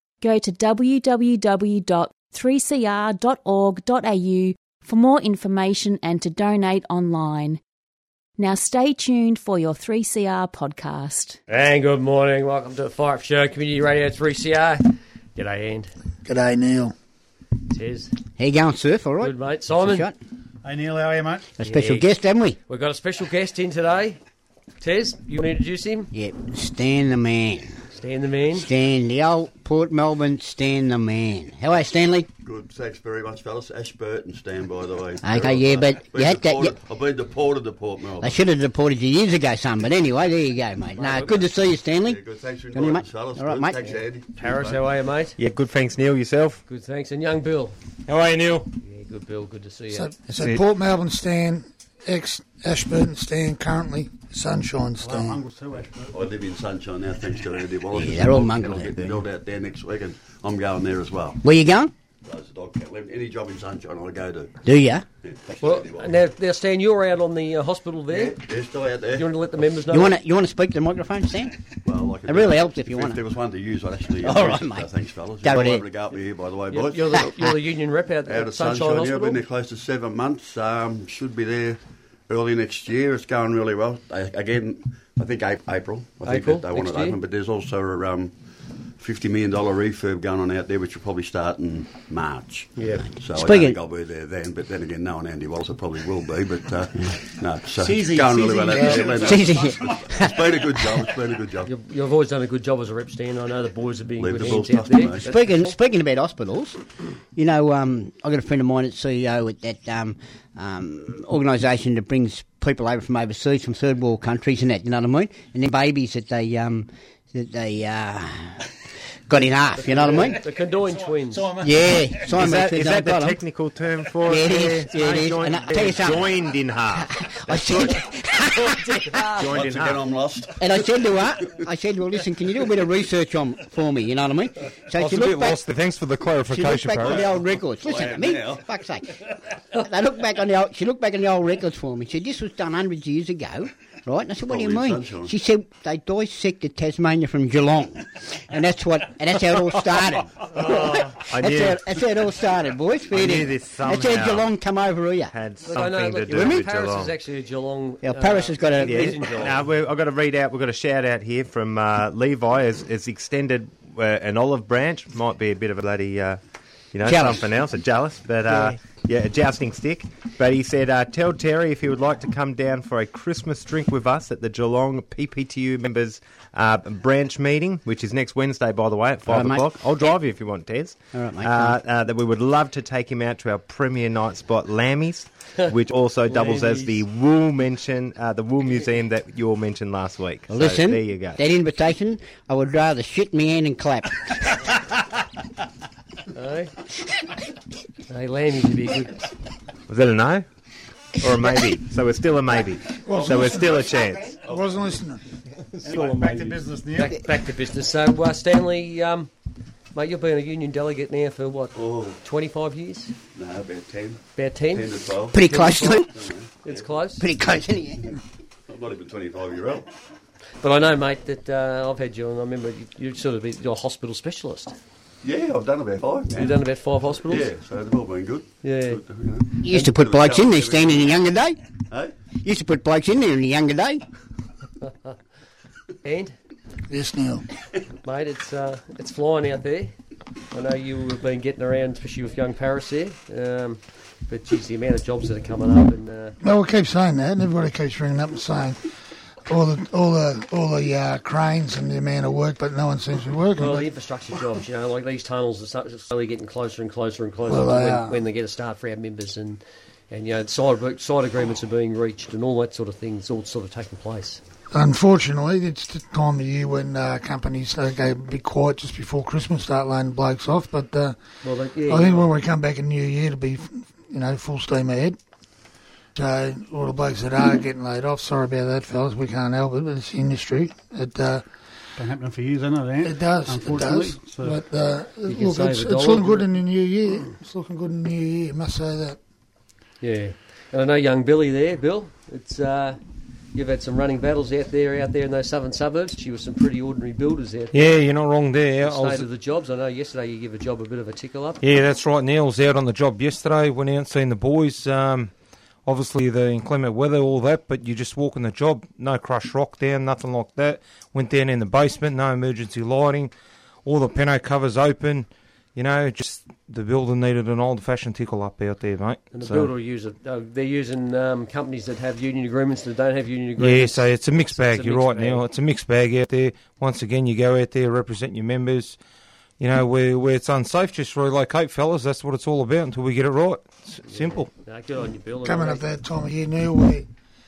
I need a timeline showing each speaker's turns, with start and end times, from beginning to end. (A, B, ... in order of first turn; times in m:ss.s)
0:00.2-0:07.6 A
0:08.4-0:11.4 A
0:11.5-0:15.9 B
0:16.3-0:16.9 C
0:17.7-0:18.2 B
0:18.4-0:20.2 D
0:19.2-0:20.1 B
0:20.6-0:21.5 E
0:21.6-0:22.6 D
0:21.6-0:22.1 B
0:22.7-0:24.2 B
0:24.8-0:26.1 B
0:26.1-0:27.8 D
0:27.9-0:28.7 B
0:28.5-0:32.3 D
0:32.4-0:38.4 F
0:35.2-0:36.8 D
0:38.2-0:42.2 D
0:41.0-0:41.4 B
0:42.0-0:44.9 F
0:42.7-0:43.8 D
0:43.8-0:45.4 B
0:45.4-0:46.6 G
0:46.7-0:47.8 B
0:48.1-0:48.7 H
0:48.8-0:50.1 B
0:49.9-0:55.4 C
0:50.3-0:50.6 H
0:55.0-0:56.3 E
0:56.1-1:01.4 F
0:57.9-0:59.2 D
1:01.4-1:01.9 D
1:02.2-1:04.6 F
1:04.6-1:05.0 D
1:05.2-1:06.2 F
1:05.6-1:08.4 B
1:08.1-1:09.3 F
1:09.2-1:10.2 B
1:09.9-1:11.6 D
1:11.8-1:17.3 F
1:12.3-1:13.2 D
1:14.2-1:14.9 D
1:15.4-1:15.8 D
1:16.7-1:19.4 B
1:17.1-1:17.5 D
1:18.2-1:28.4 F
1:26.2-1:27.2 B
1:29.0-1:41.7 F
1:33.3-1:33.8 D
1:37.8-1:41.2 E
1:38.8-1:39.0 B
1:39.2-1:40.7 D
1:41.6-1:45.8 B
1:44.2-1:45.4 F
1:45.2-1:46.8 D
1:47.4-1:58.7 D
1:59.3-2:00.4 D
1:59.8-2:01.5 B
1:59.8-2:02.3 E
2:01.6-2:03.4 D
2:02.3-2:07.1 G
2:04.2-2:06.3 D
2:05.0-2:05.5 B
2:06.9-2:09.2 D
2:07.6-2:08.0 B
2:08.5-2:09.5 B
2:09.4-2:10.0 G
2:09.5-2:11.5 F
2:10.6-2:15.6 D
2:15.0-2:17.2 H
2:16.5-2:35.3 D
2:17.0-2:18.6 F
2:24.5-2:25.3 F
2:30.6-2:31.8 G
2:33.1-2:34.5 G
2:35.3-2:37.1 G
2:35.6-2:39.6 B
2:36.3-2:36.6 D
2:38.0-2:39.2 D
2:38.8-2:46.4 G
2:46.9-3:11.4 G
2:47.0-2:47.5 D
2:48.5-2:48.8 D
2:59.3-2:59.8 D
3:01.1-3:01.8 D
3:06.3-3:07.0 B
3:10.5-3:14.6 D
3:16.3-3:16.7 B
3:18.1-3:19.3 B
3:19.9-3:20.4 G
3:21.2-3:24.4 G
3:23.1-3:25.0 F
3:23.1-3:23.5 C
3:24.4-3:25.2 C
3:25.8-3:26.6 H
3:25.8-3:27.3 E
3:27.0-3:29.3 B
3:29.9-3:33.1 B
3:31.8-3:32.2 F
3:33.4-3:36.9 F
3:34.4-3:36.1 B
3:35.3-3:36.2 D
3:36.6-3:37.3 B
3:37.2-3:38.1 D
3:38.7-3:39.9 F
3:40.6-3:44.8 B
3:45.2-3:46.6 F
3:46.3-3:47.5 B
3:47.2-3:51.1 F
3:48.6-3:49.0 B
3:49.5-3:51.6 D
3:52.4-3:54.0 D
3:54.9-3:55.1 B
3:56.0-3:56.4 B
3:56.9-3:57.4 C
3:58.0-3:59.9 B
4:00.5-4:06.4 B
4:06.4-4:08.8 C
4:09.4-4:13.9 C
4:13.6-4:24.4 B
4:17.5-4:18.2 C
4:24.7-4:31.2 C
4:31.4-4:32.3 B
4:31.9-4:35.2 C
4:36.2-4:41.4 C
4:42.0-4:44.6 E
4:43.0-4:49.2 C
4:45.3-4:46.5 B
4:50.0-4:53.0 B
4:53.5-4:57.9 B
4:57.7-4:59.3 H
4:58.8-5:01.6 B
5:01.6-5:05.3 H
5:05.8-5:13.3 H
5:13.8-5:19.7 H
5:19.3-5:25.4 B
5:23.6-5:29.0 H
5:29.6-5:34.5 H
5:34.1-5:35.9 B
5:35.4-5:37.1 C